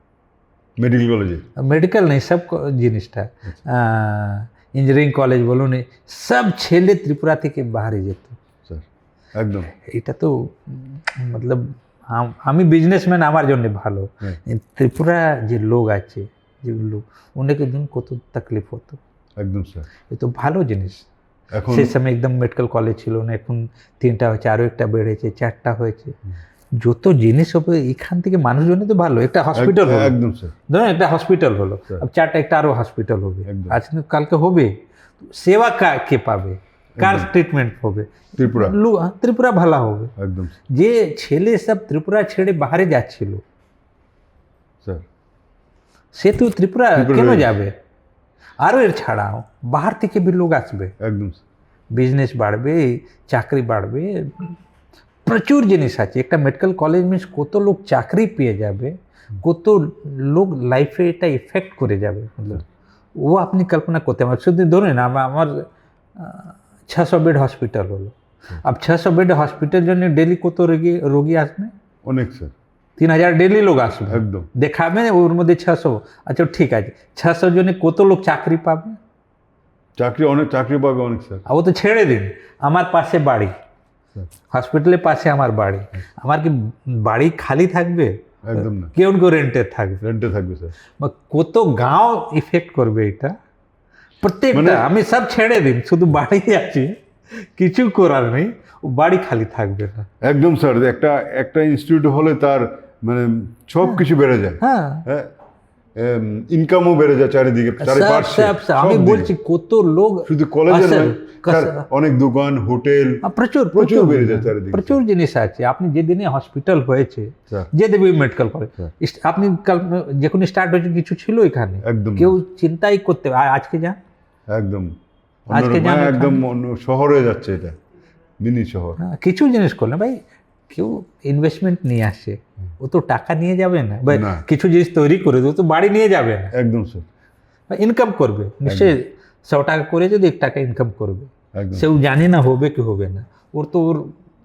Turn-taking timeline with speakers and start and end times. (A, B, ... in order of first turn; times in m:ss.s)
0:00.8-0:01.5 A
0:01.6-0:08.4 B
0:08.6-0:09.7 A
0:09.7-0:19.0 B
0:19.4-0:19.9 A
0:20.1-0:21.0 B
0:21.5-0:21.9 A
0:21.7-0:26.2 B
0:26.8-0:30.1 B
0:29.5-0:30.5 A
0:30.7-0:40.1 B
0:33.4-0:33.8 A
0:37.0-0:37.3 A
0:38.4-0:38.8 A
0:40.2-0:40.5 A
0:40.7-0:43.4 B
0:46.1-0:47.7 B
0:46.9-0:47.5 A
0:48.6-0:50.9 B
0:51.0-0:51.4 A
0:51.9-0:54.5 B
0:55.2-1:02.6 B
1:03.2-1:11.7 B
1:12.0-1:12.5 A
1:13.0-1:19.0 B
1:14.1-1:14.5 A
1:20.0-1:21.4 A
1:21.4-1:23.5 B
1:24.5-1:30.0 B
1:28.4-1:28.9 A
1:30.0-1:30.7 A
1:31.0-1:33.3 B
1:34.2-1:40.1 B
1:34.5-1:34.8 A
1:40.2-1:45.3 A
1:44.6-1:45.0 B
1:45.9-1:49.3 A
1:47.8-1:51.9 B
1:50.2-1:55.0 A
1:53.2-2:04.0 B
2:01.8-2:02.4 A
2:04.5-2:04.9 A
2:05.5-2:07.8 A
2:05.5-2:06.4 B
2:08.4-2:09.0 A
2:09.0-2:16.5 B
2:14.1-2:14.4 A
2:16.5-2:17.1 A
2:17.7-2:24.1 B
2:18.6-2:19.0 A
2:21.5-2:21.8 A